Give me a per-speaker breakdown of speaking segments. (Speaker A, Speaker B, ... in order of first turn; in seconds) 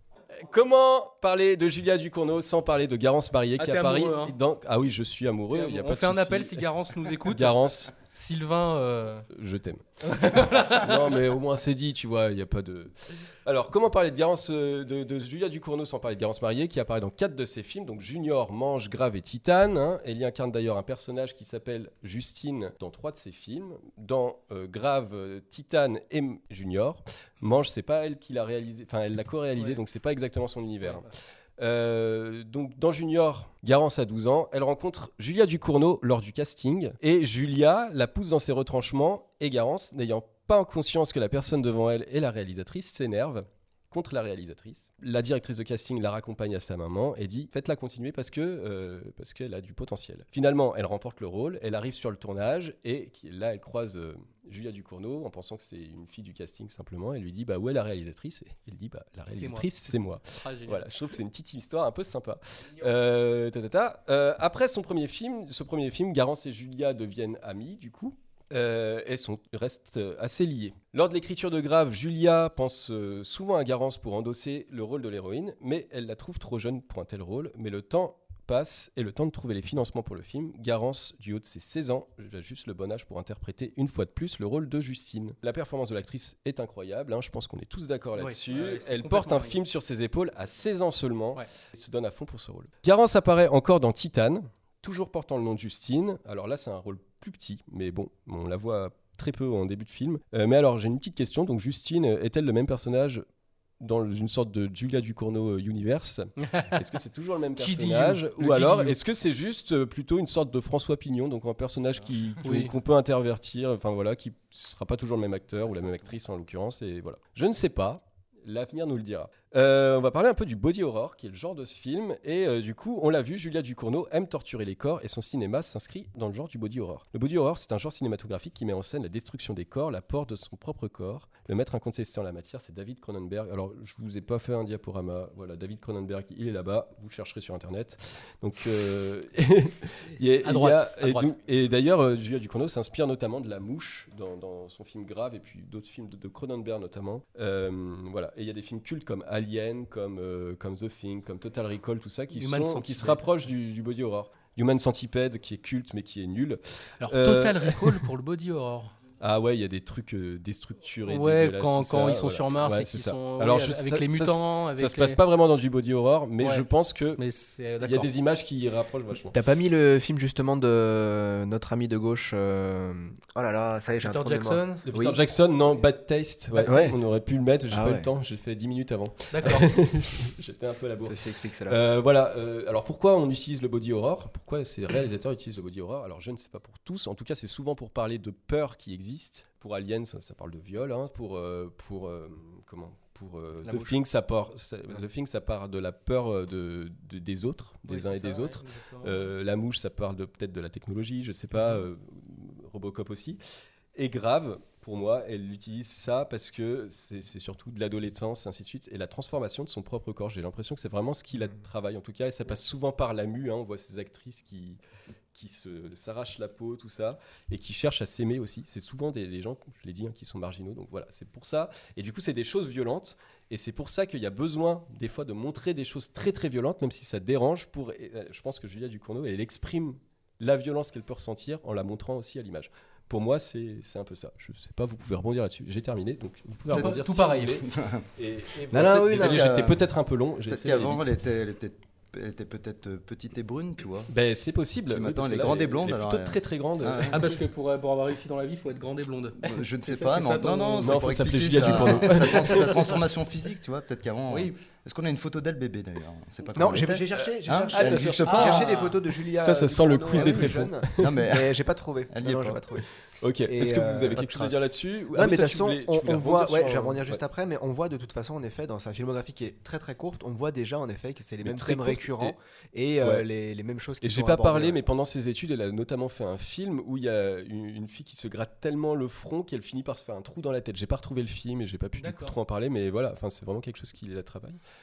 Speaker A: 0.3-6.7, 7.2-7.9, 9.3-31.1, 31.6-103.2, 103.8-158.1, 159.2-167.2, 167.8-169.4, 174.9-203.4, 203.9-214.8, 215.3-241.2, 244.1-247.3, 250.8-252.8, 257.1-258.7, 259.4-261.2, 263.2-267.2, 271.4-272.4, 273.0-273.3, 274.0-284.6
Speaker B: 3.6-4.3, 5.5-9.3, 10.1-11.2, 29.6-29.8, 30.5-31.1, 59.3-60.9, 88.2-89.6, 106.4-106.9, 107.6-109.0, 112.4-112.7, 140.2-141.3, 152.3-153.2, 157.0-159.0, 161.1-165.2, 166.4-166.7, 167.2-168.1, 174.0-174.8, 179.3-179.7, 197.9-199.3, 236.7-237.7, 247.1-251.0, 251.6-252.8, 254.3-254.6, 258.3-259.0, 282.0-282.4
Speaker C: 169.3-175.2, 176.6-177.1, 177.7-178.1, 181.0-181.8, 193.6-194.0, 238.7-239.6, 256.5-262.9, 263.5-264.2, 265.1-274.8
Speaker D: 236.7-237.0, 237.7-238.1, 238.8-239.8, 240.5-244.1, 244.9-247.4, 249.4-258.7, 260.1-261.5, 262.1-262.6, 264.1-264.7